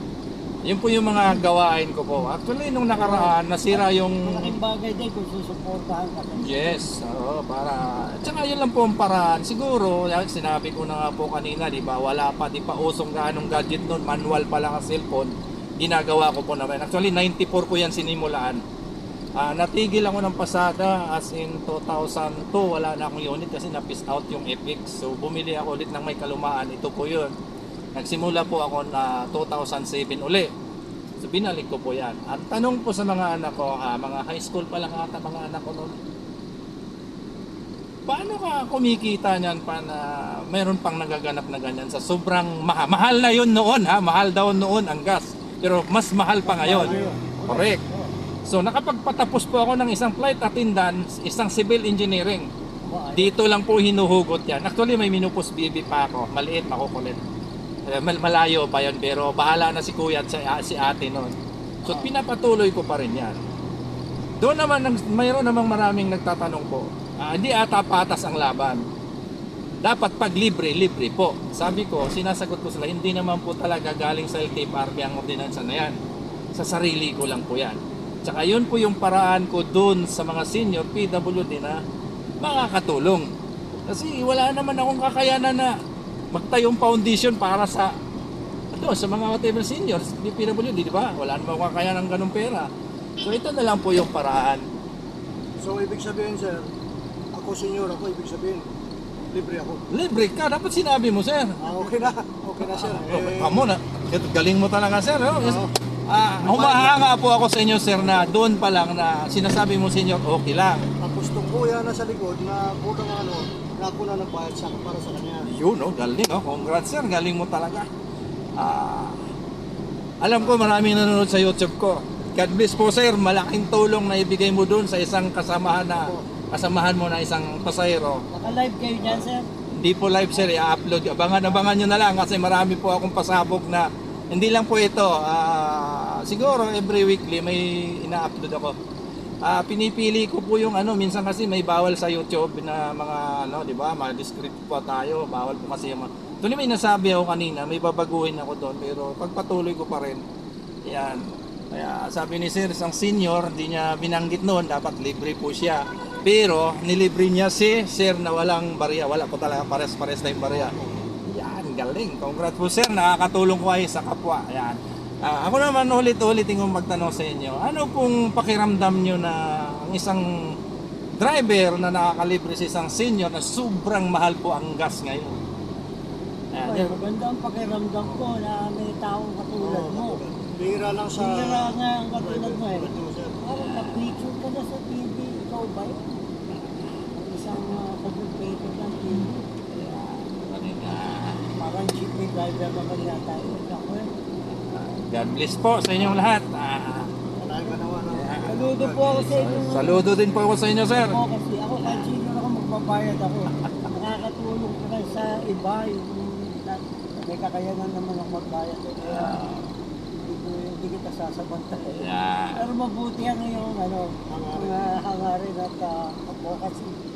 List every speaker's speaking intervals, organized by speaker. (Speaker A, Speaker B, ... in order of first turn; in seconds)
Speaker A: 0.6-4.6, 6.4-18.6, 19.4-27.3, 27.9-30.5, 31.2-36.0, 38.1-47.8, 48.5-52.5, 53.1-57.2, 57.9-61.3, 61.8-63.4, 64.4-68.8, 69.8-76.0, 76.5-81.8, 82.4-83.3, 83.9-85.7, 86.3-87.9, 88.7-92.7, 93.2-94.6, 99.9-101.8, 102.6-110.8, 115.5-117.9, 118.6-119.2, 120.2-128.2, 129.0-138.8, 139.4-150.2, 150.9-160.8, 161.3-170.2, 171.2-175.4, 176.5-177.0, 183.6-184.2, 186.5-187.6, 189.7-191.5, 194.5-197.1, 198.1-198.5, 199.1-201.2, 201.8-202.1, 203.6-203.9, 209.0-209.7, 211.9-212.7
Speaker B: 2.9-6.8, 46.4-48.1, 52.9-53.4, 128.4-129.4, 176.6-180.2, 181.2-182.9, 183.4-186.2, 187.1-189.4, 191.6-194.1, 197.4-197.8, 198.4-200.1, 200.9-209.4, 210.2-216.9
Speaker C: 46.7-47.3, 95.6-96.7, 97.3-98.7, 99.3-99.8, 101.6-103.7, 105.4-105.7, 106.4-107.1, 108.0-108.4, 111.0-115.5, 125.9-126.2, 128.4-128.6, 160.3-161.1, 179.6-183.5, 197.4-199.2, 214.3-215.0